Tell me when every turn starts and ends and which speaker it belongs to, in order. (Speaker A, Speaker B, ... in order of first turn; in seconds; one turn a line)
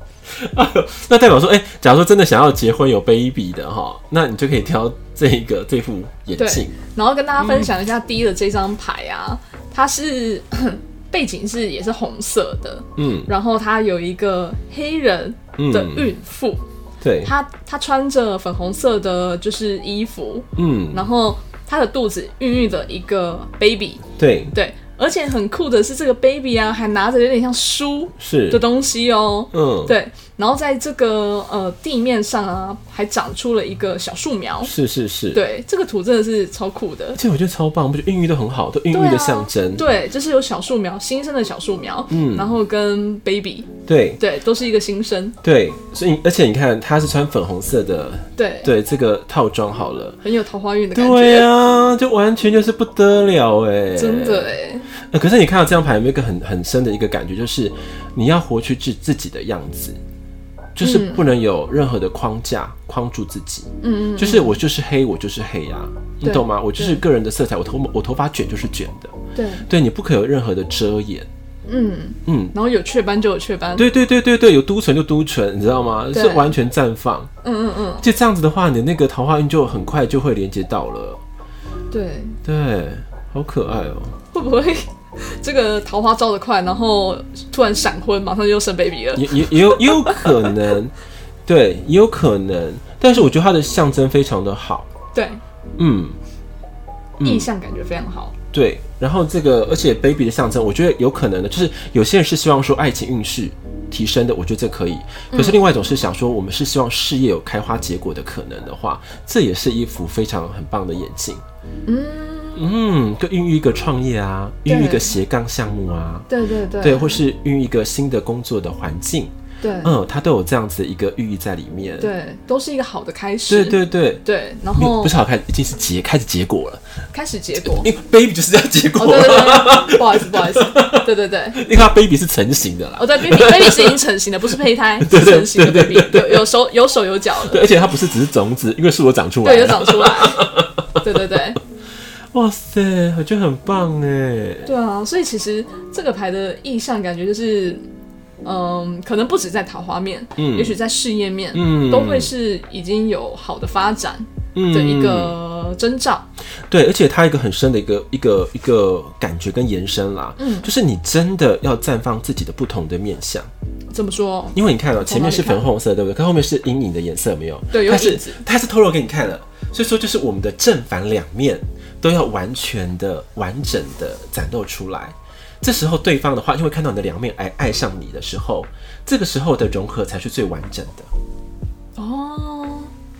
Speaker A: 0.3-6.8
Speaker B: 6.4-16.6
Speaker A: 7.4-7.7
Speaker A: 13.0-13.3
Speaker A: 15.6-16.1
Speaker A: 17.0-17.3
Speaker B: 17.2-34.7
Speaker A: 20.6-21.1
Speaker A: 24.2-24.5
Speaker A: 28.2-28.6
Speaker A: 29.5-30.0
Speaker A: 34.6-35.4
Speaker B: 35.3-37.2
Speaker A: 37.2-39.9
Speaker B: 38.9-45.4
Speaker A: 42.1-42.5
Speaker A: 43.9-44.2
Speaker A: 45.4-50.2
Speaker B: 48.4-48.7
Speaker B: 50.2-51.5
Speaker A: 51.0-60.0
Speaker B: 54.0-54.9
Speaker A: 60.8-71.3
Speaker B: 60.8-61.2
Speaker B: 63.8-64.6
Speaker B: 66.2-67.0
Speaker B: 69.3-69.7
Speaker B: 71.7-73.9
Speaker A: 72.3-72.5
Speaker A: 73.8-77.3
Speaker B: 76.1-76.5
Speaker B: 77.4-78.0
Speaker A: 78.0-81.2
Speaker B: 81.9-82.4
Speaker A: 82.5-84.2
Speaker B: 84.3-90.5
Speaker A: 89.2-90.9
Speaker A: 91.5-94.9
Speaker B: 95.1-95.4
Speaker A: 95.8-96.2
Speaker A: 97.2-97.5
Speaker B: 97.2-98.3
Speaker A: 98.5-111.4
Speaker B: 105.3-105.6
Speaker B: 111.9-112.7
Speaker A: 112.5-122.1
Speaker B: 114.7-115.2
Speaker B: 116.3-117.2
Speaker B: 119.6-119.9
Speaker B: 122.0-125.2
Speaker A: 123.5-124.2
Speaker A: 124.8-126.8
Speaker B: 127.1-127.9
Speaker A: 127.6-134.0
Speaker B: 129.0-131.6
Speaker B: 133.0-137.6
Speaker A: 135.0-136.5
Speaker A: 137.4-141.0
Speaker B: 139.4-140.5
Speaker B: 141.0-141.6
Speaker A: 142.3-144.7
Speaker B: 144.7-147.8
Speaker B: 148.4-156.3
Speaker A: 150.4-150.8
Speaker A: 151.5-152.3
Speaker A: 154.5-155.3
Speaker A: 156.7-163.5
Speaker B: 160.4-160.7
Speaker B: 163.9-165.7
Speaker A: 164.6-181.1
Speaker B: 167.7-168.4
Speaker B: 182.0-182.9